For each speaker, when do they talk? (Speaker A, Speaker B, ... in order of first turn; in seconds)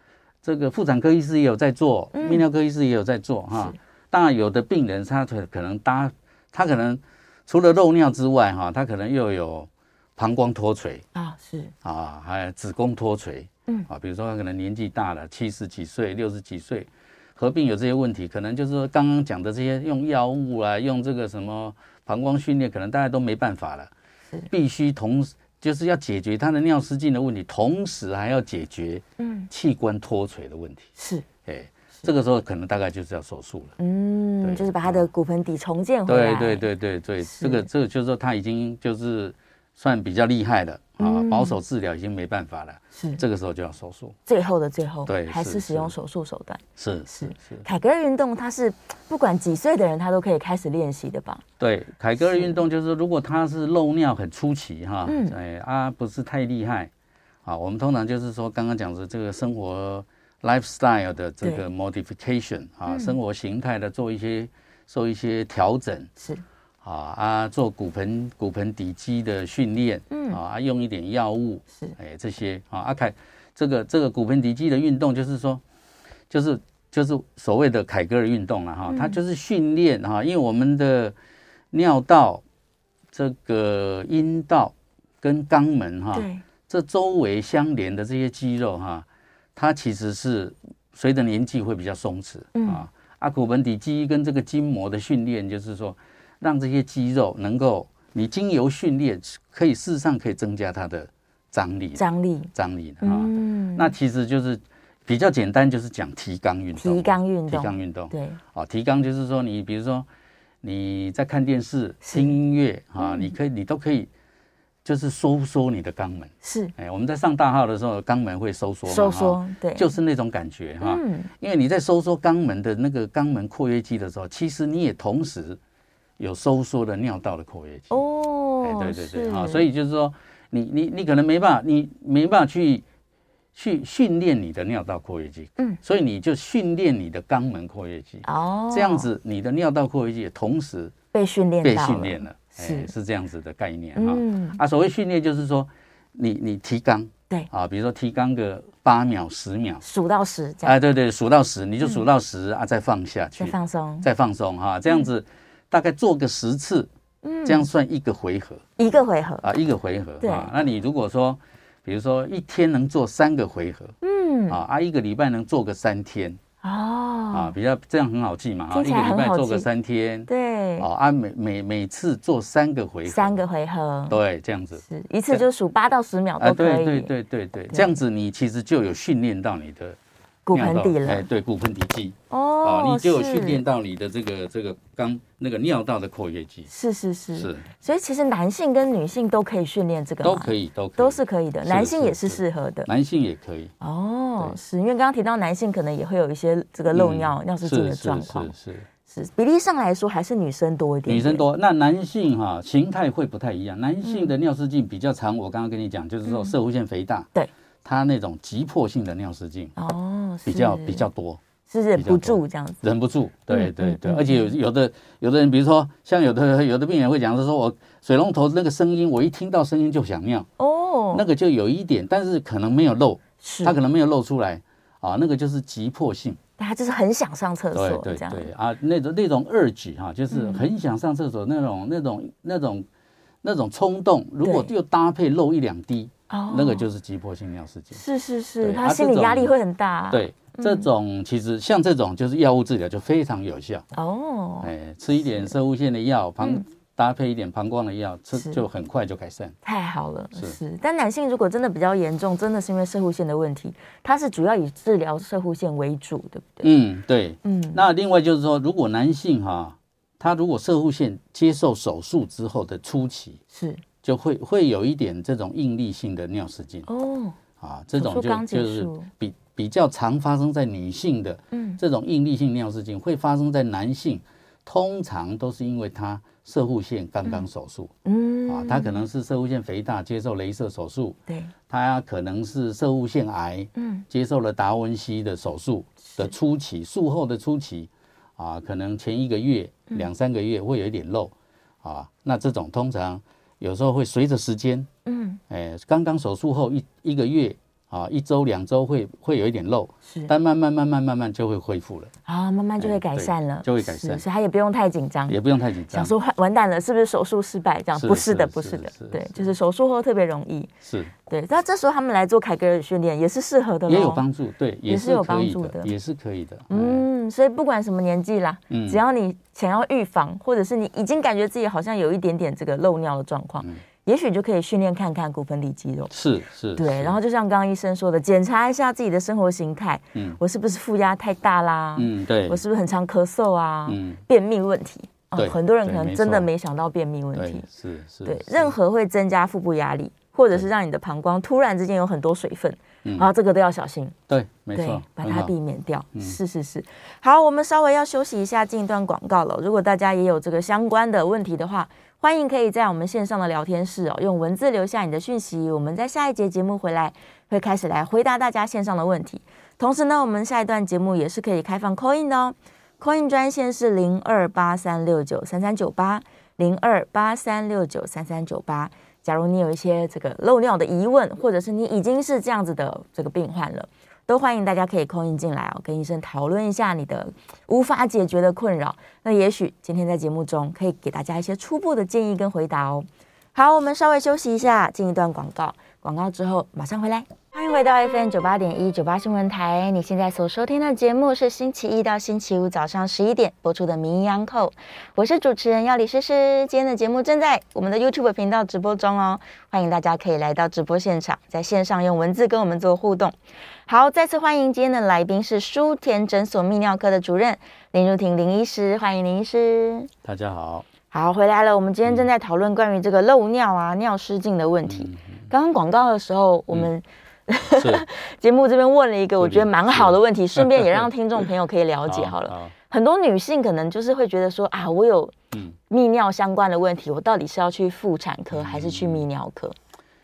Speaker A: 0.4-11.0, 11.8-23.9, 24.5-30.9, 31.4-33.7, 34.4-35.1, 36.1-44.1, 45.0-45.9, 46.8-47.6, 51.6-56.9, 57.4-66.1, 66.8-75.6, 76.3-81.1, 81.7-82.4, 83.1-102.0, 102.5-110.0, 110.6-114.1, 114.8-125.6, 126.2-128.0, 128.6-132.8, 133.5-140.9, 141.6-149.8, 150.6-156.9, 157.4-158.6, 159.4-163.9, 164.5-166.4, 167.3-170.3, 170.8-173.4, 174.1-175.4, 176.4-180.0, 180.5-186.7, 187.3-187.7, 190.2-193.7, 196.9-198.8, 201.1-207.3, 207.8-209.7, 210.4-211.4, 211.9-220.5, 221.1-226.4, 227.7-232.9, 233.4-238.0, 238.6-239.5, 240.1-243.8, 244.6-249.6, 256.6-263.4, 264.0-266.9, 267.6-277.9, 278.5-294.9, 295.5-302.1, 302.8-304.2, 305.3-306.1, 307.9-309.5, 310.8-311.1, 313.9-317.1, 318.7-319.0, 326.1-327.2, 330.1-330.4, 332.0-332.6, 333.9-334.2, 335.3-336.5, 337.3-338.7, 343.0-343.3, 344.3-345.5, 346.1-346.4, 410.2-410.9, 414.9-415.5, 417.6-418.0, 419.4-421.1, 422.1-422.7, 425.5-425.8, 428.5-429.2
Speaker B: 2.1-2.4, 11.1-11.7, 29.2-29.5, 31.0-31.2, 33.8-36.6, 37.2-37.7, 41.0-41.6, 42.9-43.2, 44.3-51.4, 52.2-52.5, 55.0-55.4, 62.9-63.1, 70.1-70.4, 78.9-79.2, 86.1-86.4, 92.5-92.8, 102.0-102.5, 103.0-103.9, 106.8-108.4, 112.0-112.3, 113.0-113.3, 116.4-116.7, 118.9-119.9, 120.8-121.3, 127.9-129.7, 138.2-139.1, 141.1-142.9, 143.9-144.6, 149.8-150.8, 153.4-154.1, 157.2-157.7, 158.8-159.5, 160.2-160.5, 164.0-164.6, 166.6-167.5, 168.7-169.7, 170.3-170.9, 173.1-174.2, 174.8-177.1, 180.4-181.2, 182.3-183.6, 186.7-192.9, 193.8-198.5, 199.1-201.4, 204.0-204.3, 206.2-206.5, 209.8-211.1, 211.7-212.8, 213.5-214.5, 220.6-221.2, 223.4-223.7, 226.6-228.5, 230.3-230.7, 234.4-234.7, 236.3-236.8, 237.9-240.9, 243.9-244.7, 245.2-245.5, 248.3-248.6, 249.6-256.7, 257.4-257.8, 263.5-263.8, 266.9-267.4, 268.0-269.1, 271.5-271.8, 278.0-279.0, 283.8-284.0, 286.1-286.3, 295.1-295.4, 300.1-300.3, 302.2-305.4, 305.9-310.7, 311.3-314.2, 314.9-315.9, 316.7-326.1, 326.8-337.6, 338.2-344.1, 344.7-403.3, 403.9-410.1, 411.1-425.3, 425.9-429.7